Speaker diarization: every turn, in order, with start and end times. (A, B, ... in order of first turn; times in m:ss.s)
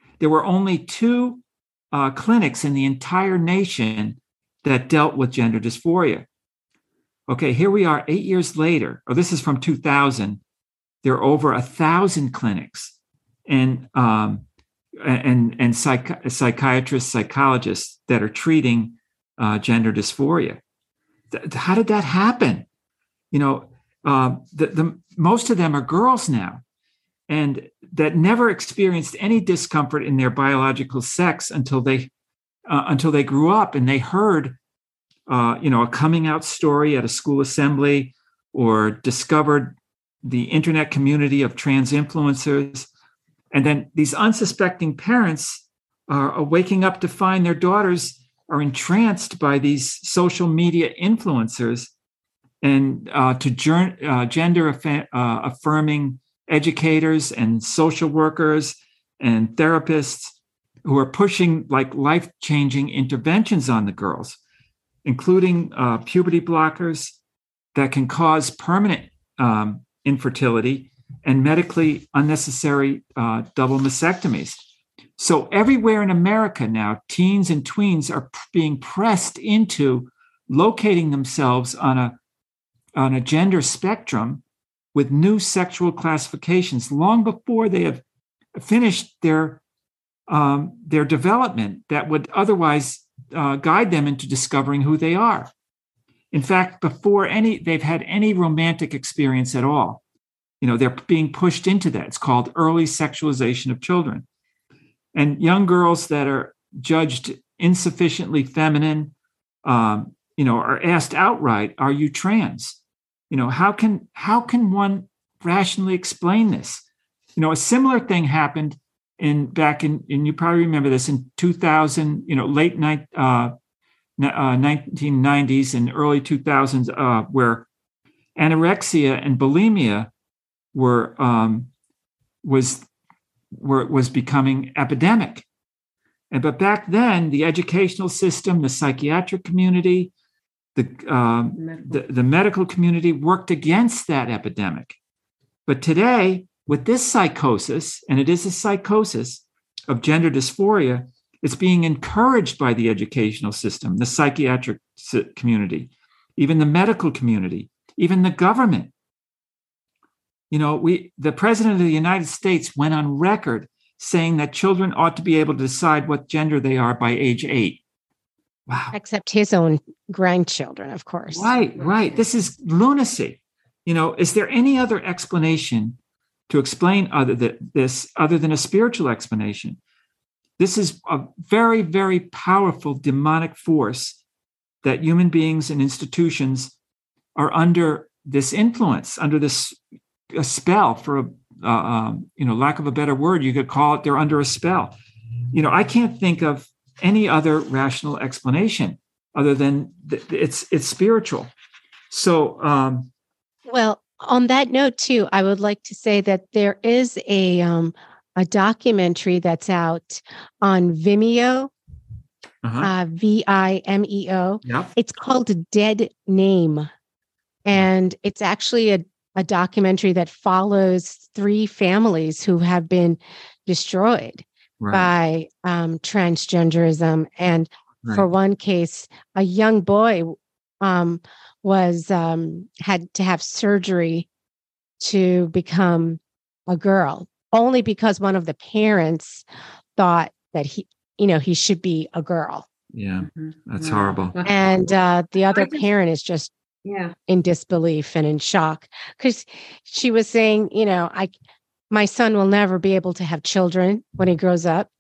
0:00.2-0:06.3 A
0:07.3-0:10.4 A
0:11.0-0:12.9 A
0:13.5-0:14.4 A
0:15.0-0:20.6 A
0:21.3-0:22.7 A
0:23.3-0:26.6 A
0:27.3-0:32.1 A
0:32.7-0:34.6 A
0:35.3-0:42.9 A
0:43.5-0:51.9 A
0:52.6-1:04.4 A
1:05.0-1:07.2 A
1:07.8-1:14.6 A
1:15.2-1:22.2 A
1:23.0-1:24.4 A
1:24.9-1:28.0 A
1:28.6-1:29.6 A
1:30.3-1:35.5 A
1:36.3-1:40.0 A
1:40.6-1:44.2 A
1:45.1-1:49.1 A
1:49.6-1:52.8 A
1:53.3-1:56.8 A
1:57.4-2:03.5 A
2:04.2-2:07.7 A
2:08.4-2:10.1 A
2:10.7-2:11.7 A
2:12.4-2:12.9 A
2:13.5-2:15.5 A
2:16.3-2:20.1 A
2:20.8-2:25.0 A
2:21.6-2:22.0 B
2:25.7-2:38.9 A
2:40.5-2:47.8 A
2:48.7-2:49.0 A
2:48.9-2:51.5 C
2:51.3-2:56.0 A
2:51.7-2:52.2 B
2:56.5-2:59.8 A
3:00.6-3:04.2 A
3:04.8-3:06.7 A
3:07.4-3:09.8 A
3:10.3-3:14.9 A
3:15.5-3:21.5 A
3:22.1-3:23.1 A
3:23.7-3:31.7 C
3:32.6-3:32.9 A
3:32.8-3:36.9 C
3:34.6-3:34.9 A
3:37.7-3:54.3 C
3:44.8-3:45.1 A
3:55.0-3:59.4 C
4:00.0-4:02.7 C
4:02.9-4:04.4 A
4:03.2-4:04.8 B
4:04.4-4:06.5 C
4:05.5-4:05.8 B
4:06.8-4:07.2 B
4:07.3-4:11.3 C
4:11.9-4:14.9 C